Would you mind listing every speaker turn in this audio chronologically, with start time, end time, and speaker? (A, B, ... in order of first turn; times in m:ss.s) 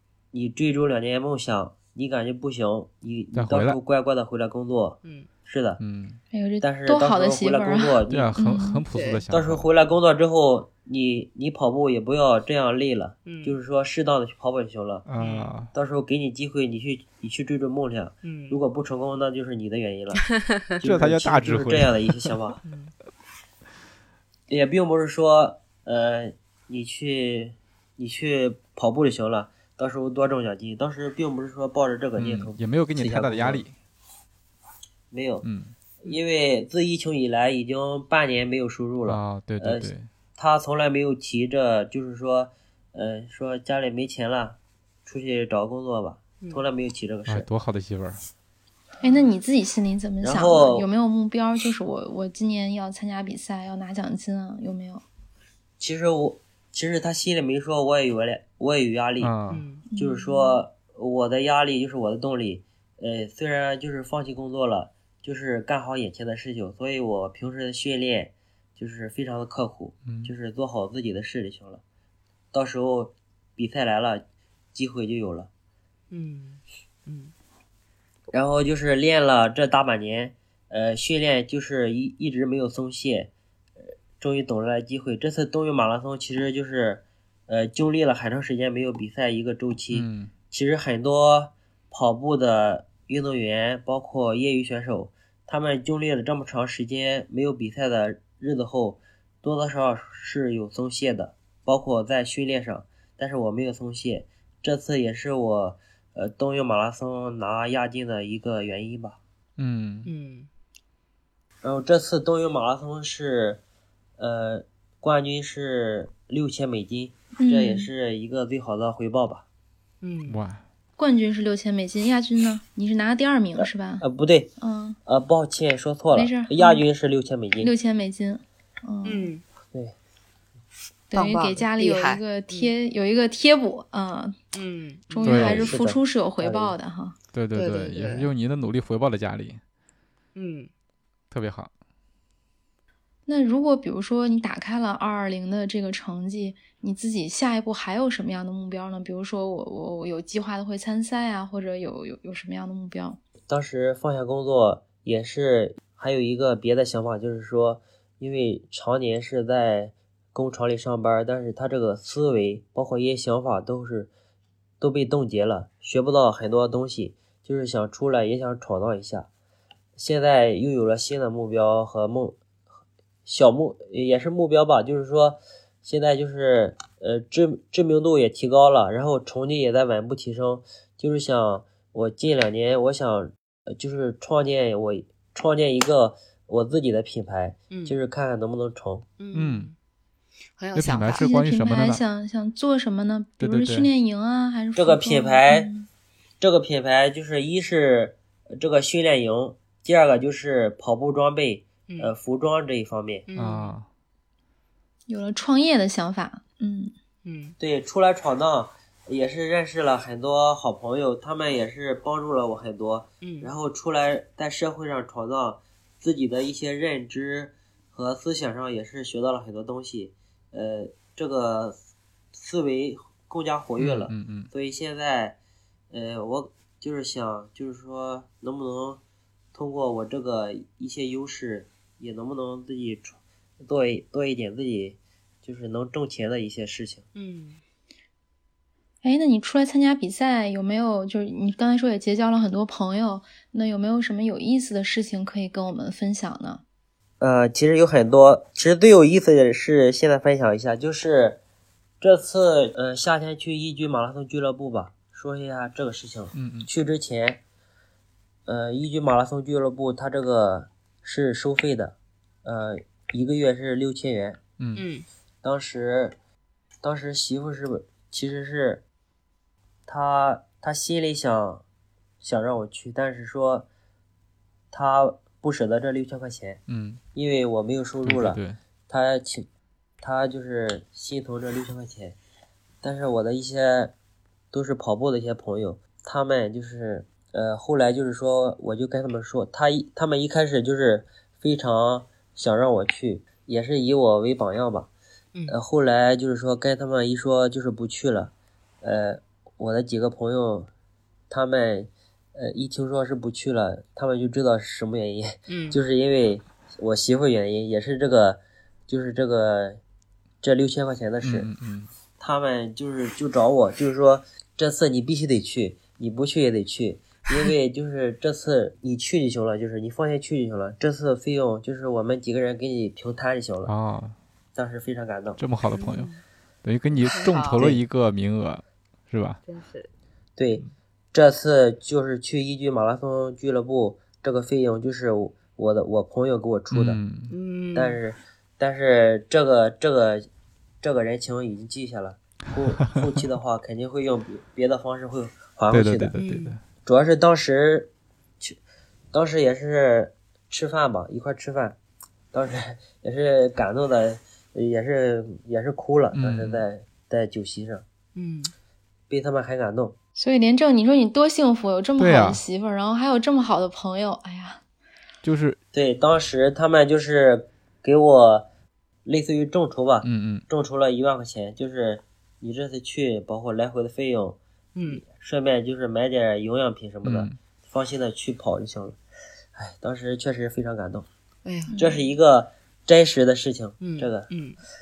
0:00.3-0:05.8 A
0:03.3-0:03.8 B
0:05.8-0:06.2 B
0:06.3-0:08.8 C
0:06.6-0:08.4 A
0:08.1-0:09.7 B
0:08.9-0:09.2 D
0:09.3-0:15.0 A
0:13.2-0:13.6 D
0:15.0-0:15.7 B
0:15.2-0:15.5 D
0:15.7-0:22.6 A
0:18.2-0:18.6 D
0:20.8-0:22.3 B
0:22.6-0:22.9 D
0:24.5-0:33.6 A
0:32.2-0:33.7 B
0:35.1-0:35.4 A
0:35.4-0:35.7 B
0:36.0-0:47.5 A
0:39.0-0:40.1 B
0:47.3-0:48.2 B
0:49.0-0:55.0 C
0:50.2-0:50.9 A
0:55.8-0:59.3 A
0:59.2-0:59.6 B
0:59.5-0:59.8 D
0:59.9-1:00.6 C
0:59.9-1:11.8 A
1:10.0-1:10.3 B
1:12.5-1:15.5 A
1:16.1-1:17.3 D
1:18.3-1:23.3 A
1:24.2-1:49.2 A
1:29.9-1:30.3 B
1:49.6-1:50.1 B
1:50.0-1:50.5 D
1:51.6-1:53.6 A
1:54.2-1:59.4 A
1:57.4-1:57.9 C
2:00.0-2:00.4 D
2:00.3-2:00.6 B
2:01.0-2:04.0 C
2:03.6-2:04.5 A
2:04.6-2:05.0 C
2:05.0-2:07.7 A
2:06.1-2:06.8 C
2:07.6-2:09.3 C
2:09.0-2:09.4 D
2:11.1-2:14.4 C
2:11.1-2:12.7 D
2:14.5-2:15.5 D
2:15.1-2:17.2 C
2:15.2-2:15.7 B
2:15.2-2:16.7 A
2:17.3-2:19.6 B
2:17.5-2:18.3 D
2:20.3-2:20.7 D
2:21.3-2:21.7 B
2:23.3-2:33.2 C
2:33.5-2:44.1 A
2:44.8-2:49.3 A
2:50.0-2:52.4 A
2:53.2-3:09.0 A
3:07.7-3:08.0 D
3:09.2-3:09.7 D
3:09.3-3:09.7 B
3:10.6-3:11.3 D
3:10.7-3:12.0 B
3:11.2-3:15.9 C
3:13.4-3:13.9 B
3:14.8-3:15.7 A
3:16.4-3:23.2 A
3:23.3-3:23.7 D
3:23.3-3:23.9 B
3:25.1-3:26.9 C
3:27.2-3:27.5 D
3:27.6-3:41.8 A
3:33.2-3:33.5 D
3:42.3-3:45.4 A
3:43.8-3:44.5 B
3:45.9-3:49.0 A
3:49.5-3:57.0 A
3:57.1-3:57.6 D
3:59.0-4:06.6 C
4:07.2-4:11.4 A
4:12.0-4:17.4 A
4:16.3-4:16.7 B
4:18.4-4:24.4 A
4:24.6-4:24.8 B
4:24.8-4:25.0 D
4:25.4-4:26.1 A
4:26.8-4:28.8 A
4:29.9-4:31.6 A
4:32.2-4:33.7 A
4:34.7-4:36.6 A
4:36.7-4:37.0 B
4:37.1-4:39.5 A
4:38.0-4:38.6 B
4:40.0-4:42.2 A
4:42.8-4:43.9 A
4:44.5-4:54.9 A
4:55.5-5:00.7 A
5:01.3-5:09.8 A
5:05.5-5:05.8 D
5:10.4-5:11.5 A
5:11.2-5:11.9 B
5:12.2-5:23.7 A
5:23.6-5:24.2 B
5:24.5-5:25.4 A
5:25.4-5:26.1 B
5:25.7-5:26.2 D
5:26.6-5:29.4 B
5:27.0-5:27.6 D
5:27.3-5:27.8 A
5:29.4-5:29.9 D
5:30.4-5:37.0 A
5:36.7-5:37.3 B
5:37.3-5:38.0 D
5:37.7-5:40.3 A
5:40.8-5:46.1 A
5:45.7-5:46.6 B
5:46.2-5:46.6 D
5:46.8-5:48.6 A
5:49.1-5:51.8 A
5:52.3-5:57.8 A
5:56.1-5:56.6 B
5:58.1-5:58.5 D
5:59.1-6:00.0 A
6:00.2-6:04.6 C
6:02.0-6:02.4 B
6:05.2-6:05.6 B
6:05.7-6:08.5 A
6:09.0-6:19.0 A
6:10.0-6:10.4 B
6:14.7-6:15.0 D
6:17.0-6:17.3 B
6:19.5-6:21.0 A
6:21.4-6:21.7 D
6:21.7-6:22.1 C
6:21.8-6:24.3 A
6:23.8-6:24.6 D